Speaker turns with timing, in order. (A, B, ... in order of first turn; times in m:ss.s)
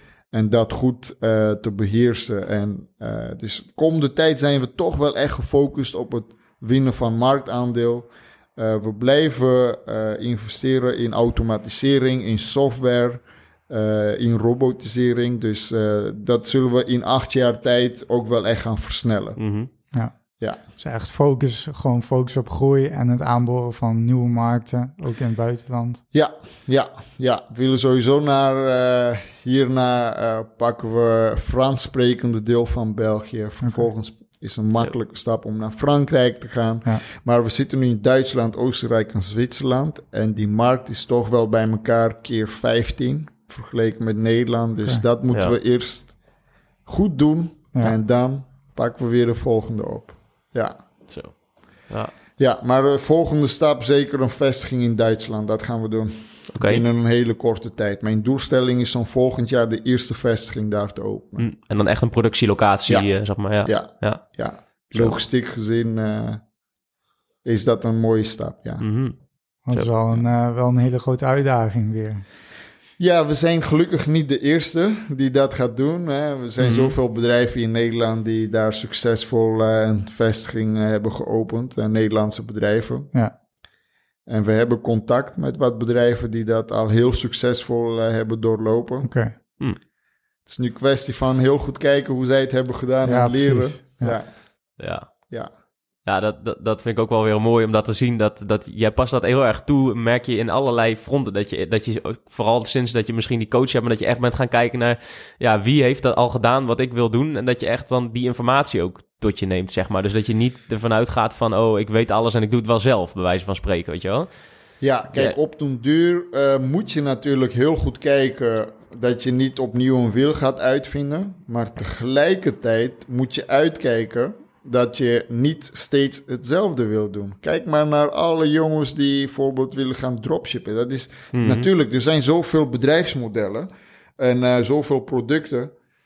0:00.3-0:19.4 A
0:19.4-0:19.7 B
0:20.8-0:26.0 C
0:26.1-0:46.1 A
0:46.8-0:50.8 A
0:51.1-0:51.4 B
0:52.4-1:01.5 A
0:56.5-0:56.8 B
1:01.4-1:04.2 B
1:02.9-1:03.1 A
1:03.6-1:06.4 A
1:07.4-1:08.8 A
1:08.8-1:09.2 B
1:09.6-1:12.2 C
1:13.0-1:23.1 A
1:16.6-1:16.9 B
1:24.3-1:29.1 A
1:29.0-1:29.3 C
1:30.4-1:34.4 A
1:33.0-1:34.2 C
1:34.8-1:35.3 B
1:36.0-1:54.3 B
1:54.8-2:15.7 A
2:11.3-2:11.7 B